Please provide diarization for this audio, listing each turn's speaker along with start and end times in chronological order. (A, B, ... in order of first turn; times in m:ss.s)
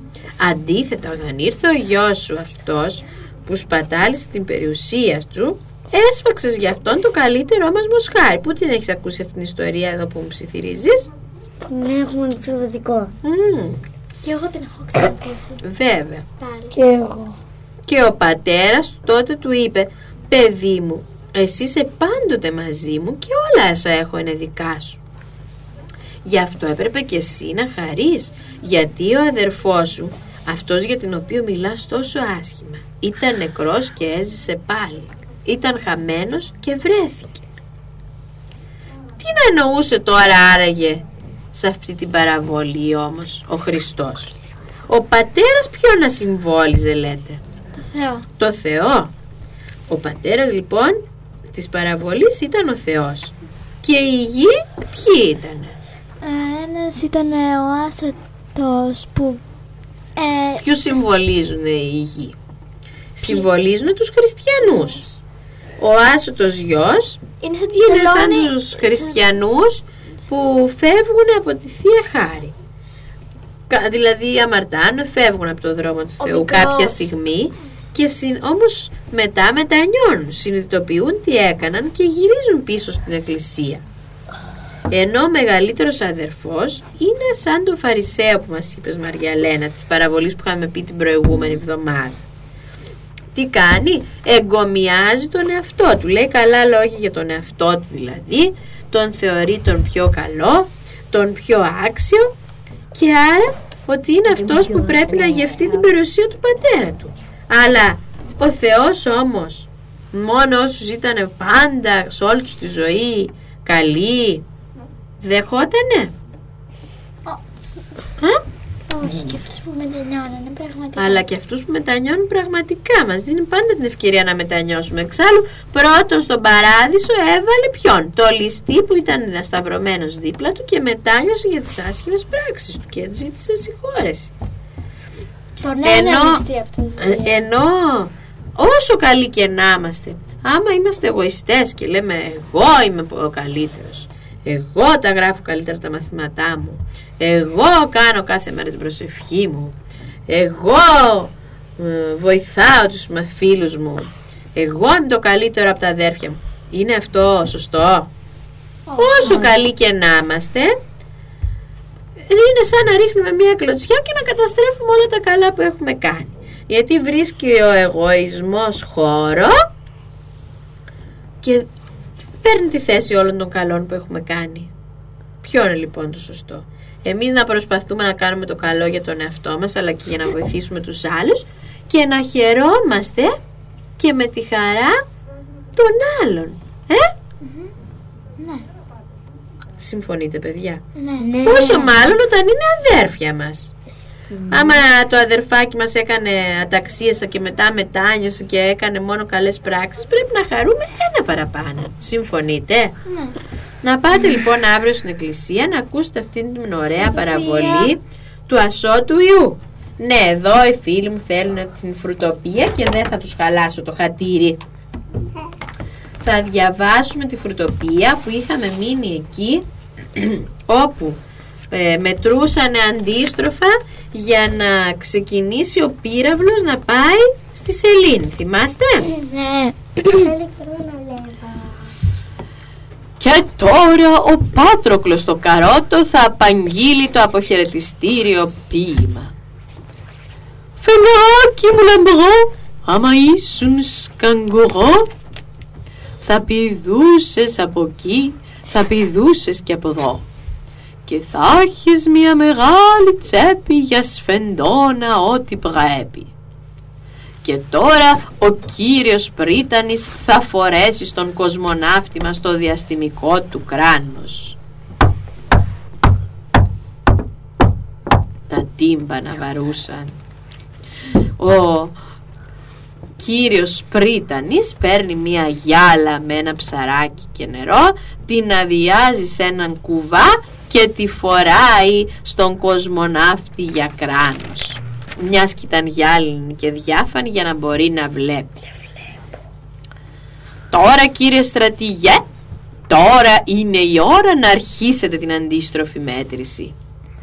0:00.4-0:11.1 A
0:11.7-0:13.1 B
0:13.2-0:13.8 A
0:14.2-0:15.6 C
0:15.6-0:16.3 A
0:16.4-0:16.8 C
0:16.7-0:17.4 B
0:17.9-0:25.0 A
0:26.2-0:37.4 A
0:39.2-0:44.4 A
0:44.9-0:47.4 A
0:47.7-0:48.3 C
0:48.4-0:49.1 A
0:49.9-0:55.8 A
0:56.2-0:59.4 C
1:00.2-1:00.6 C
1:00.6-1:02.4 A
1:03.2-1:05.1 A
1:05.8-1:07.2 A
1:07.4-1:09.2 C
1:07.7-1:12.5 A
1:13.7-1:23.8 A
1:16.2-1:17.1 C
1:24.9-1:32.2 A
1:33.3-1:42.3 A
1:42.9-1:54.4 A
1:44.3-1:45.8 B
1:55.2-1:56.1 A
1:58.9-2:01.2 C
2:01.0-2:14.3 A
2:15.6-2:17.4 C
2:15.8-2:16.4 A
2:17.0-2:29.7 A
2:30.3-2:38.1 A
2:38.9-2:39.5 C
2:39.0-2:40.8 A
2:42.3-2:49.6 A
2:51.4-2:51.7 A
2:52.4-2:54.7 A
2:55.4-3:03.4 A
3:04.0-3:05.0 A
3:05.8-3:07.1 A
3:07.4-3:07.7 C
3:08.4-3:08.6 C
3:09.8-3:10.8 A
3:11.0-3:11.9 C
3:11.2-3:12.0 B
3:11.4-3:13.7 A
3:14.3-3:14.8 B
3:14.5-3:23.0 A
3:23.1-3:23.4 C
3:23.8-3:34.6 A
3:27.0-3:27.9 C
3:36.2-3:39.6 A
3:40.2-3:41.2 A
3:41.7-3:49.1 A
3:49.0-3:50.3 C
3:50.0-3:51.9 B
3:53.2-3:59.3 A
4:00.8-4:05.1 A
4:06.2-4:10.3 A
4:11.1-4:16.3 A
4:17.4-4:24.6 A
4:28.5-4:30.2 A
4:31.4-4:32.0 A
4:33.2-4:48.6 A
4:50.7-4:52.2 A
4:52.9-4:56.8 A